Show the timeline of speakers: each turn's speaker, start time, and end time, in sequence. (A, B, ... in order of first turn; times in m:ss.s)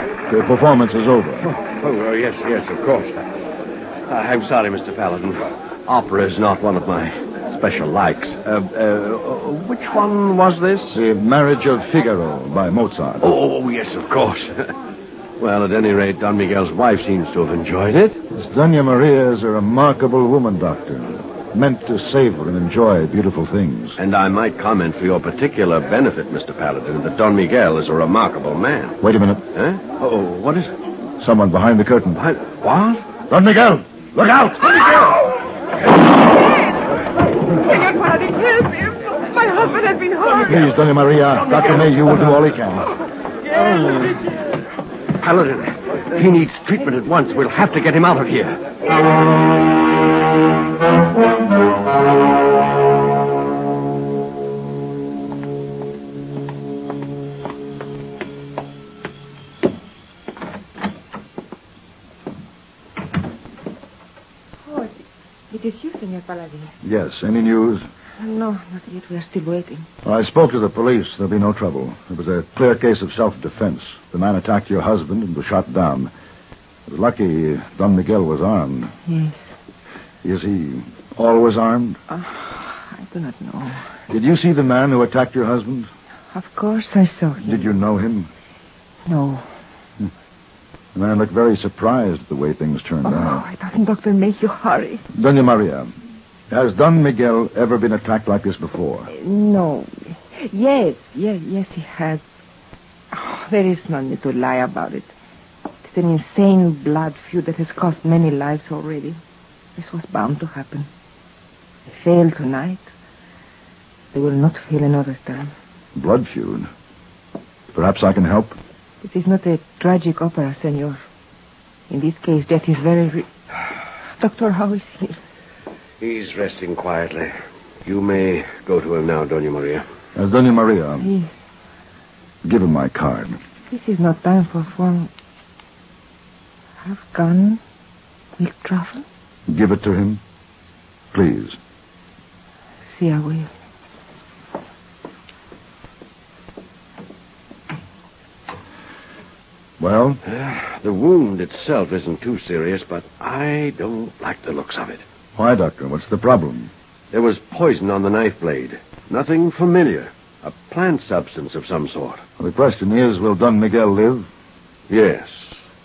0:00.3-0:01.5 A
0:01.4-0:03.3 B
0:04.1-0:11.0 B
0:10.9-0:13.3 A
0:13.2-0:14.7 B
0:15.4-0:18.2 B
0:18.3-0:24.0 A
0:24.0-0:29.0 B
0:29.0-0:29.4 A
0:29.5-0:30.7 B
0:31.2-0:32.2 A
0:32.2-0:33.0 B
0:33.3-0:35.1 A
0:40.4-0:42.9 A
0:45.2-0:48.6 B
1:04.6-1:05.0 C
1:05.5-1:06.7 C
1:06.8-1:07.8 A
1:08.2-1:09.8 C
1:10.0-1:16.1 A
1:16.9-1:18.9 A
1:19.1-1:19.5 C
1:20.2-1:22.0 A
1:22.1-1:23.8 C
1:24.1-1:25.9 A
1:26.3-1:27.6 C
1:27.4-1:28.3 A
1:29.0-1:29.5 C
1:30.9-1:33.4 A
1:33.0-1:35.0 C
1:35.1-1:35.9 A
1:36.5-1:39.1 A
1:39.1-1:42.2 C
1:43.1-1:45.1 C
1:45.8-1:49.2 C
1:49.8-1:50.9 C
1:51.9-1:52.9 C
1:54.1-1:55.5 C
1:55.9-1:56.7 A
1:57.7-1:58.6 A
1:59.0-2:01.0 C
2:01.9-2:03.3 C
2:04.2-2:05.2 C
2:06.0-2:09.8 B
2:10.1-2:11.1 A
2:11.0-2:11.3 C
2:12.4-2:13.4 A
2:13.7-2:15.1 C
2:16.8-2:17.6 C
2:18.4-2:19.0 C
2:19.5-2:20.2 A
2:21.1-2:21.6 A
2:22.9-2:23.5 C
2:29.8-2:30.2 A
2:30.2-2:35.0 B
2:35.4-2:36.7 A
2:37.1-2:42.2 B
2:42.4-2:44.3 A
2:44.9-2:45.6 B